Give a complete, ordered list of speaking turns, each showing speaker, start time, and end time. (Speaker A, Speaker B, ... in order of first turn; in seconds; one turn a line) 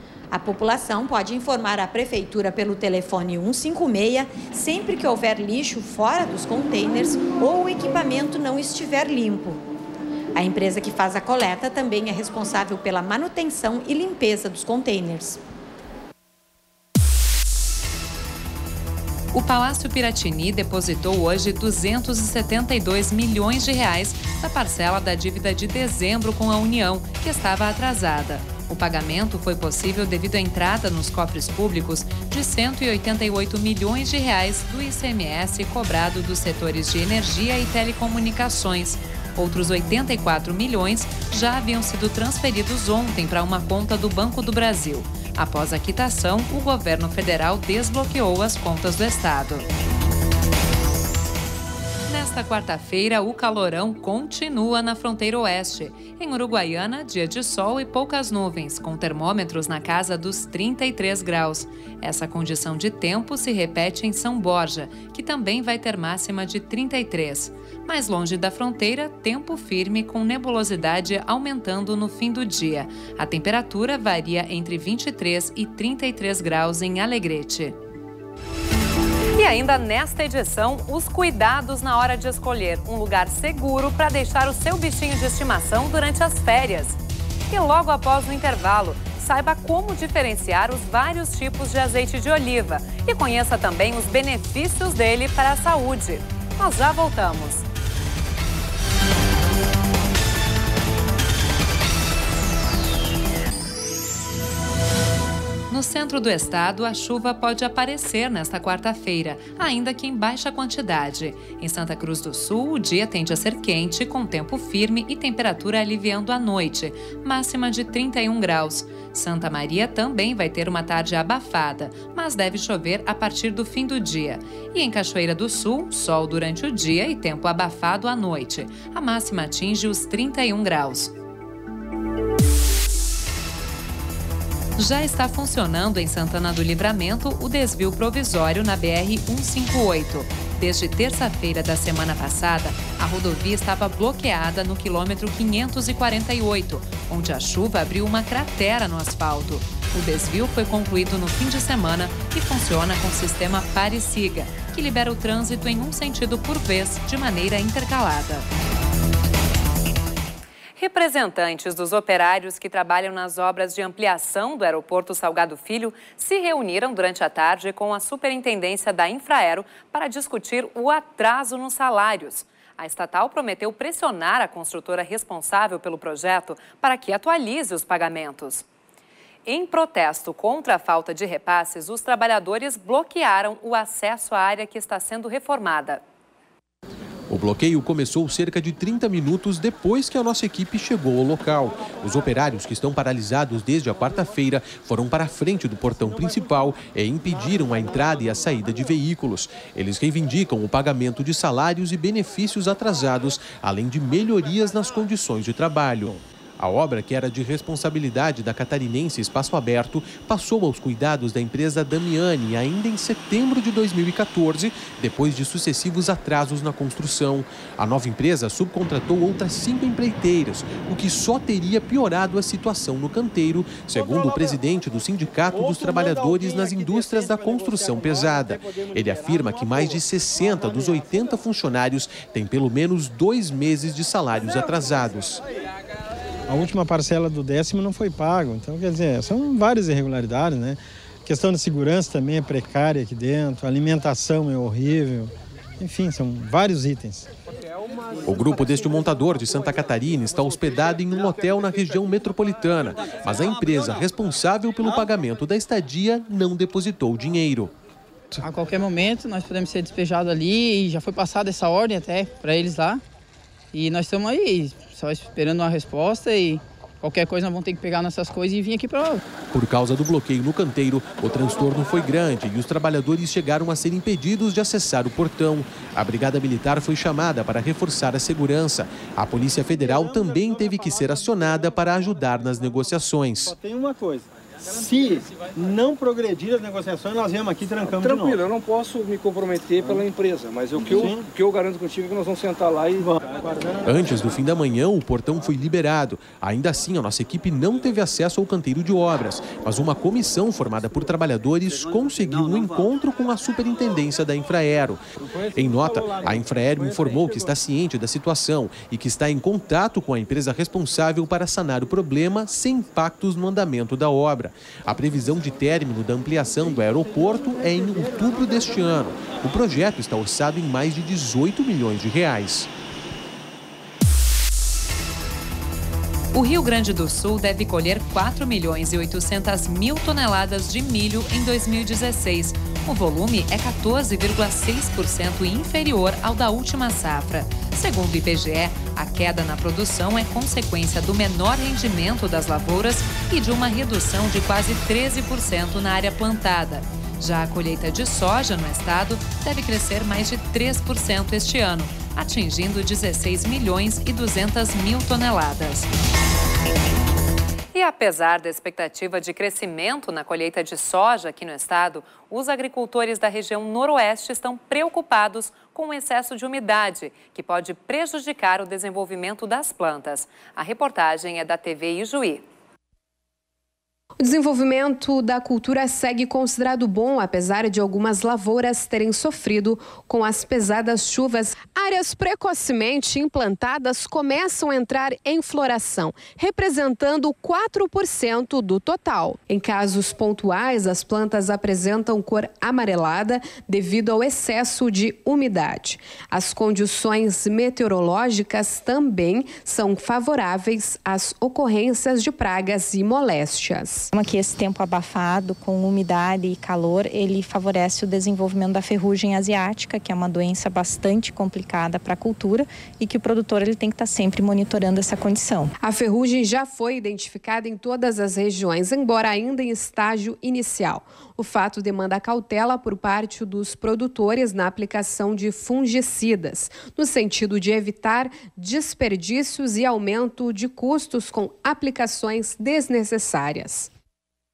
Speaker A: 0.3-9.6
Speaker A: 10.3-15.4
Speaker B: 19.3-49.7
Speaker B: 52.1-77.8
Speaker B: 79.4-87.0
Speaker B: 87.5-97.7
Speaker B: 105.7-131.1
Speaker B: 134.8-158.5
Speaker B: 160.8-178.7
Speaker B: 179.5-186.0
Speaker C: 187.3-235.4
Speaker D: 236.5-247.3
Speaker C: 248.2-257.7
Speaker E: 258.4-263.0
Speaker E: 263.7-269.2
Speaker C: 269.5-283.6
Speaker D: 283.5-288.4
Speaker F: 288.0-293.1
Speaker D: 290.9-291.2
Speaker D: 293.0-293.8
Speaker C: 293.8-305.0
Speaker C: 305.5-322.7
Speaker D: 305.6-306.4
Speaker B: 326.3-355.9
Speaker B: 357.7-372.4
Speaker G: 374.2-404.1
Speaker H: 404.1-415.7
Speaker G: 415.8-433.9